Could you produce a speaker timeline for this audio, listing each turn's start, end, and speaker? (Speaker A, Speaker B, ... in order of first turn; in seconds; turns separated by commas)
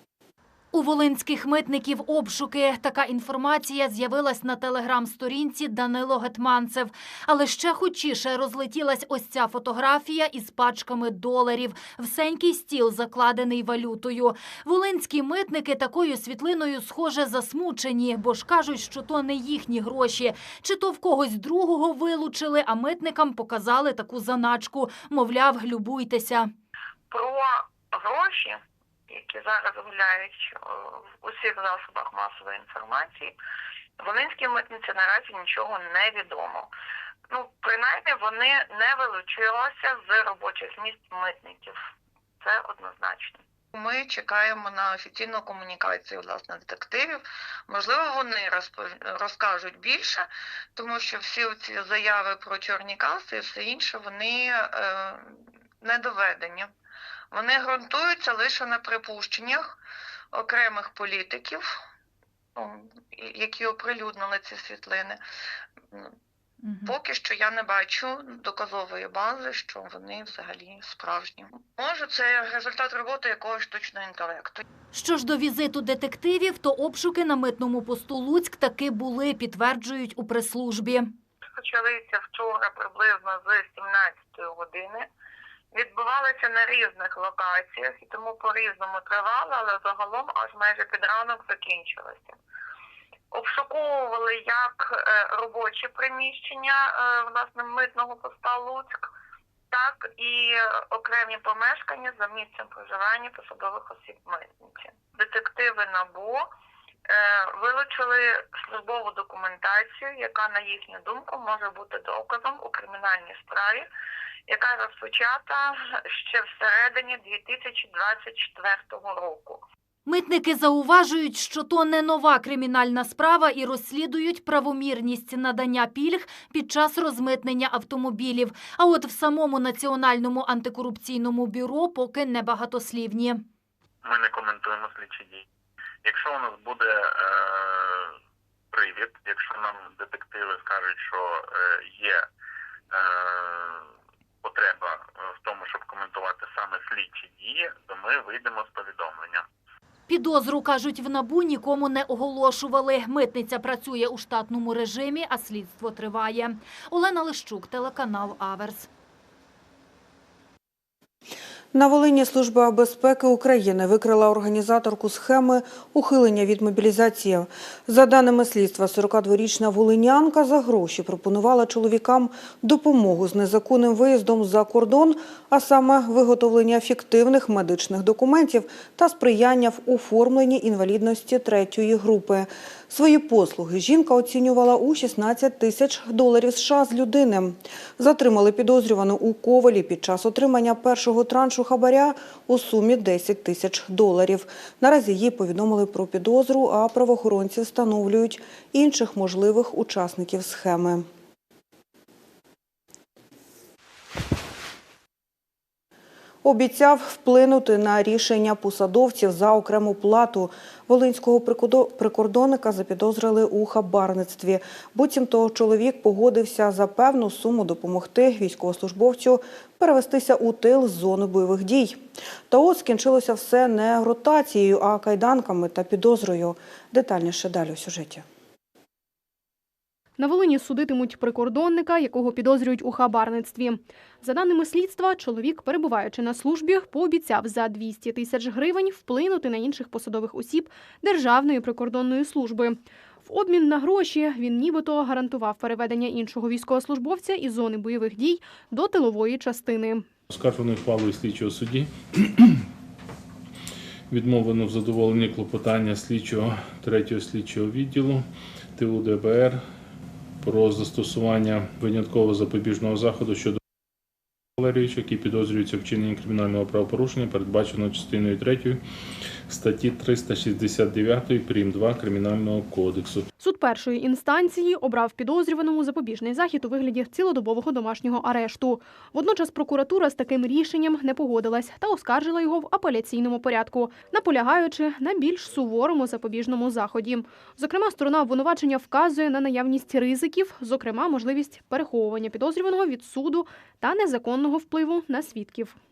Speaker A: 0.7-26.5, Speaker B: 27.1-28.6, Speaker B: 29.1-33.3, Speaker B: 34.0-36.7, Speaker B: 37.3-41.8, Speaker B: 42.4-56.7, Speaker B: 57.3-59.8, Speaker B: 60.3-61.6, Speaker B: 62.5-65.2, Speaker A: 66.6-67.0, Speaker B: 66.8-74.6, Speaker A: 74.9-81.1, Speaker B: 81.5-85.1, Speaker B: 85.7-92.4, Speaker B: 93.3-99.1, Speaker B: 99.7-106.4, Speaker B: 107.1-113.9, Speaker B: 114.5-119.6, Speaker A: 120.0-133.4, Speaker C: 134.0-135.4, Speaker C: 136.0-138.1, Speaker C: 138.7-142.2, Speaker C: 142.9-143.8, Speaker C: 144.4-149.4, Speaker A: 150.1-158.9, Speaker D: 161.7-201.1, Speaker D: 206.4-228.2, Speaker E: 230.2-250.1, Speaker F: 250.3-252.6, Speaker F: 254.1-259.6, Speaker F: 260.4-263.6, Speaker F: 264.6-268.8, Speaker F: 269.5-273.3, Speaker E: 273.4-295.8